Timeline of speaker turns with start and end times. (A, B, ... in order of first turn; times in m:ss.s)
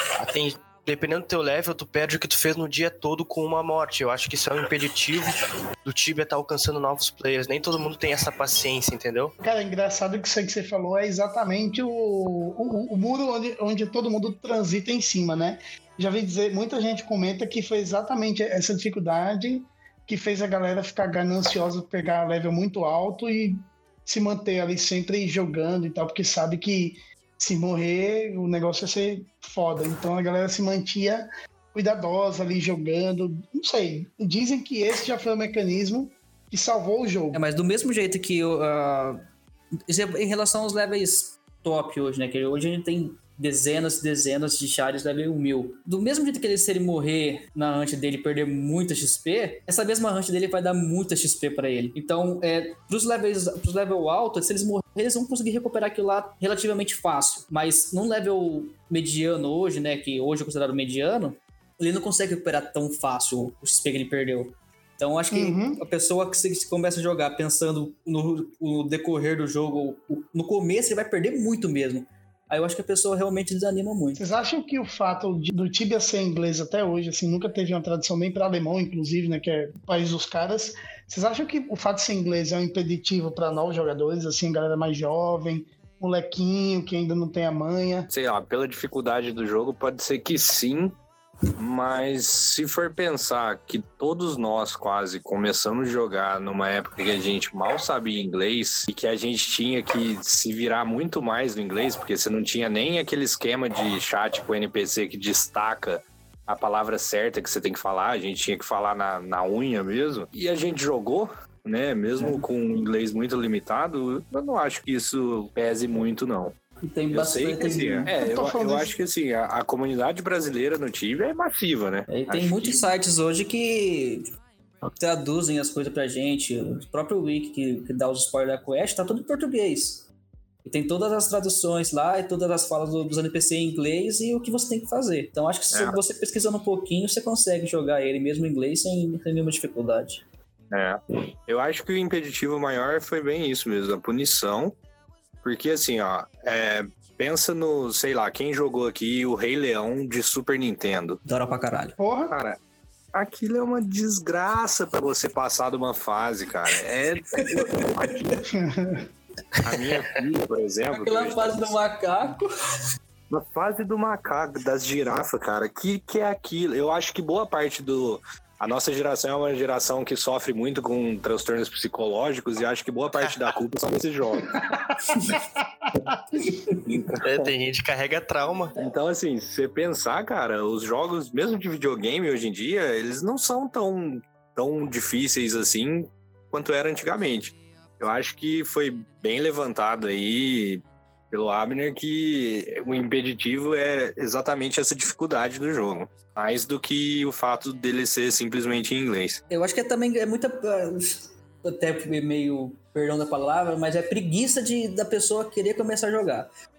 0:00.2-0:09.3 A
0:09.4-0:37.4 B
0:37.3-0:39.2 C
0:39.9-1:14.2 C
1:05.3-1:05.8 B
1:14.2-1:28.1 B
1:28.1-1:31.0 D
1:31.6-1:56.6 D
1:52.2-1:52.4 C
1:56.8-1:58.1 C
1:57.1-2:02.9 D
1:58.1-1:58.9 B
2:02.1-2:04.3 C
2:04.9-2:10.1 C
2:10.6-2:20.2 C
2:15.7-2:16.0 D
2:20.7-2:24.8 D
2:25.4-2:31.2 D
2:31.2-2:32.0 C
2:32.0-2:32.4 B
2:32.3-2:32.6 D
2:33.1-2:38.4 D
2:37.4-2:38.1 C
2:38.5-2:39.1 B
2:39.6-2:41.8 D
2:40.9-2:42.5 C
2:43.3-2:54.8 D
2:56.9-2:57.2 D
2:57.2-2:58.7 A
2:58.8-3:19.4 D
3:19.5-3:26.5 C